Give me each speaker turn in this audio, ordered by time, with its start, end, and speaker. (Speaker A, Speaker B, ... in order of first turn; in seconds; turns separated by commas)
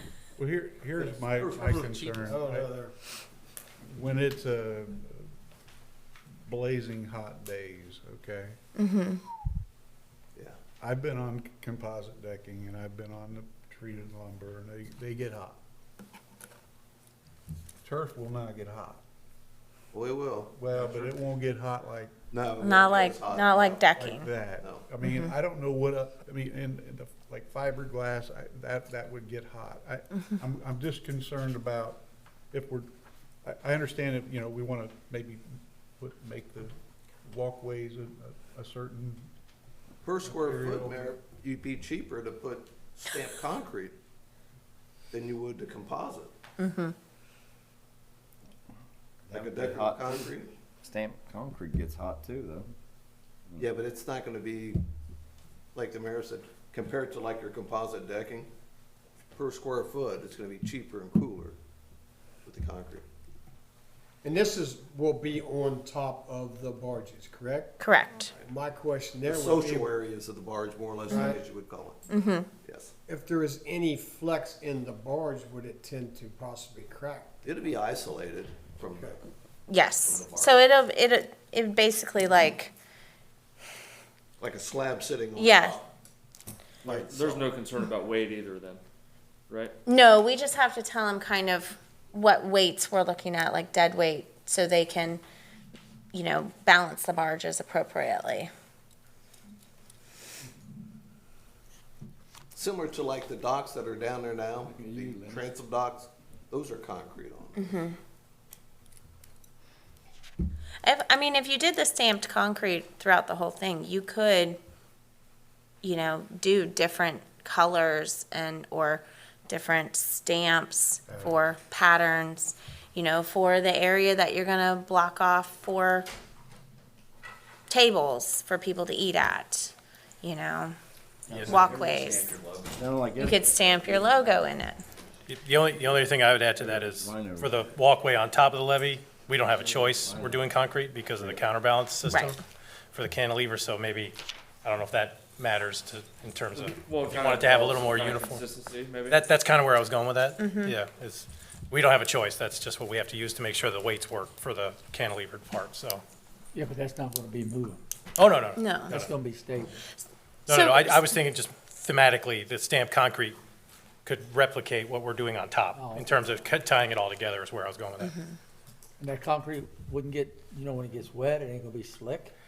Speaker A: 0.4-2.7, Speaker B: 1.3-2.3, Speaker C: 2.3-2.9, Speaker A: 3.9-5.2, Speaker A: 6.5-8.6, Speaker D: 8.8-9.2, Speaker A: 10.8-15.6, Speaker A: 17.8-19.0, Speaker B: 19.9-20.5, Speaker A: 20.5-22.1, Speaker B: 22.3-23.9, Speaker D: 22.6-24.4, Speaker A: 23.9-32.9, Speaker B: 24.5-24.9, Speaker D: 25.0-25.3, Speaker A: 33.4-35.4, Speaker A: 36.0-39.3, Speaker B: 40.0-44.0, Speaker A: 40.2-41.1, Speaker B: 45.1-46.3, Speaker D: 46.6-46.9, Speaker E: 49.3-50.3, Speaker B: 49.3-50.5, Speaker E: 50.8-52.7, Speaker B: 53.6-54.8, Speaker B: 55.7-58.5, Speaker B: 59.3-61.6, Speaker B: 62.4-63.0, Speaker C: 64.2-69.9, Speaker D: 67.8-68.3, Speaker B: 69.2-72.0, Speaker C: 71.1-71.4, Speaker D: 71.1-71.4, Speaker D: 72.1-72.5, Speaker B: 72.6-72.9, Speaker C: 73.0-77.3, Speaker B: 77.4-79.2, Speaker C: 78.9-79.2, Speaker D: 79.7-82.7, Speaker B: 80.0-80.6, Speaker B: 84.4-85.9, Speaker D: 85.3-85.8, Speaker F: 86.8-88.8, Speaker B: 86.8-87.5, Speaker F: 89.5-89.8, Speaker D: 89.8-95.2, Speaker D: 96.1-98.5, Speaker B: 102.5-107.8, Speaker E: 104.9-105.4, Speaker D: 107.6-108.0, Speaker D: 110.8-114.6, Speaker D: 115.8-126.1, Speaker A: 121.1-121.4, Speaker D: 127.7-130.8, Speaker E: 131.3-131.8, Speaker G: 131.3-131.6, Speaker D: 131.4-132.3, Speaker F: 131.5-132.9, Speaker E: 132.7-134.4, Speaker D: 133.1-134.8, Speaker G: 135.3-142.4, Speaker E: 136.6-137.6, Speaker E: 139.6-140.6, Speaker D: 142.1-142.4, Speaker G: 142.9-148.5, Speaker F: 146.8-149.2, Speaker G: 149.0-156.0, Speaker D: 150.4-150.8, Speaker H: 156.5-157.8, Speaker G: 158.2-159.1, Speaker D: 158.6-159.1, Speaker H: 158.9-159.8, Speaker D: 160.5-161.1, Speaker G: 160.5-163.4, Speaker G: 164.0-168.1, Speaker H: 165.7-166.1, Speaker D: 168.0-168.3, Speaker H: 169.0-172.3